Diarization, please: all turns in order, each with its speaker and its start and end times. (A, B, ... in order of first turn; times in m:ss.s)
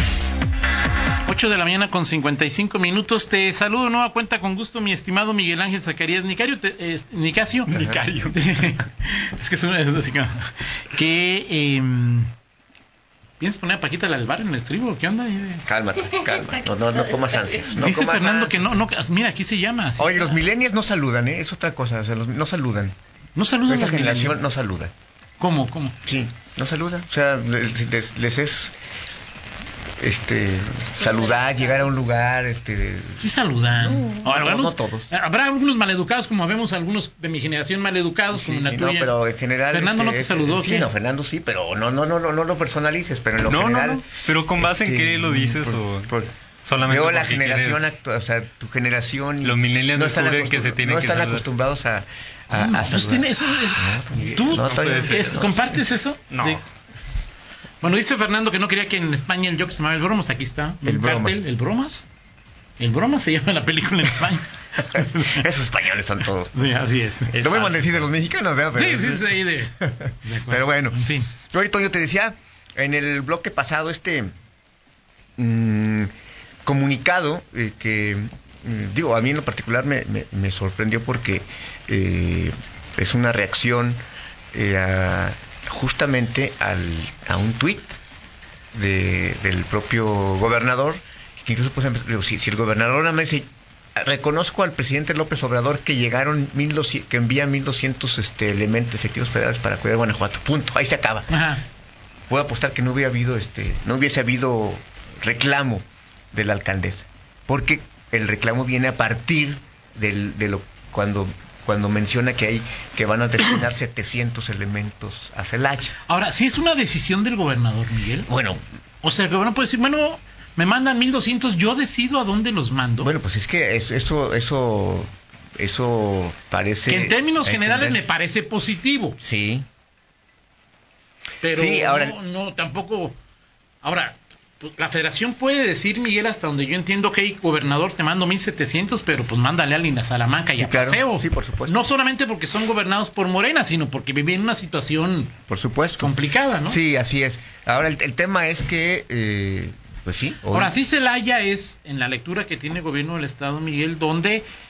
0:01.2-0:12.3 A
0:07.7-0:08.0 B
0:07.7-0:08.3 C
0:13.4-0:15.6 A
0:15.7-0:18.8 B
0:17.8-0:20.4 A
0:20.0-0:23.0 B
0:23.4-0:24.4 A
0:23.7-0:24.9 B
0:25.4-0:26.0 A
0:26.0-0:28.7 B
0:30.0-0:35.1 B
0:33.2-0:39.2 A
0:38.3-0:44.1 B
0:39.7-0:40.9 A
0:43.5-0:48.0 C
0:44.6-0:46.3 B
0:46.8-0:55.6 B
0:49.4-0:51.4 C
0:52.5-0:56.6 A
0:54.2-0:55.5 C
0:56.3-0:56.6 C
0:57.8-1:02.1 A
1:00.8-1:01.4 B
1:02.8-1:05.5 A
1:04.8-1:06.7 B
1:06.5-1:07.4 A
1:07.3-1:08.1 C
1:07.3-1:14.3 B
1:08.7-1:11.3 A
1:15.4-1:16.1 B
1:16.6-1:24.0 B
1:24.5-1:28.0 B
1:28.7-1:41.3 B
1:41.3-1:41.6 A
1:42.3-1:56.0 B
1:56.1-1:58.3 A
1:58.3-1:58.6 B
1:59.0-2:03.1 A
2:03.0-2:08.0 B
2:06.9-2:09.2 A
2:09.2-2:09.6 B
2:11.4-2:13.2 A
2:11.5-2:12.2 B
2:13.8-2:25.3 A
2:20.6-2:21.8 B
2:25.5-2:26.1 B
2:26.0-2:26.8 A
2:26.7-2:30.8 B
2:30.5-2:34.4 A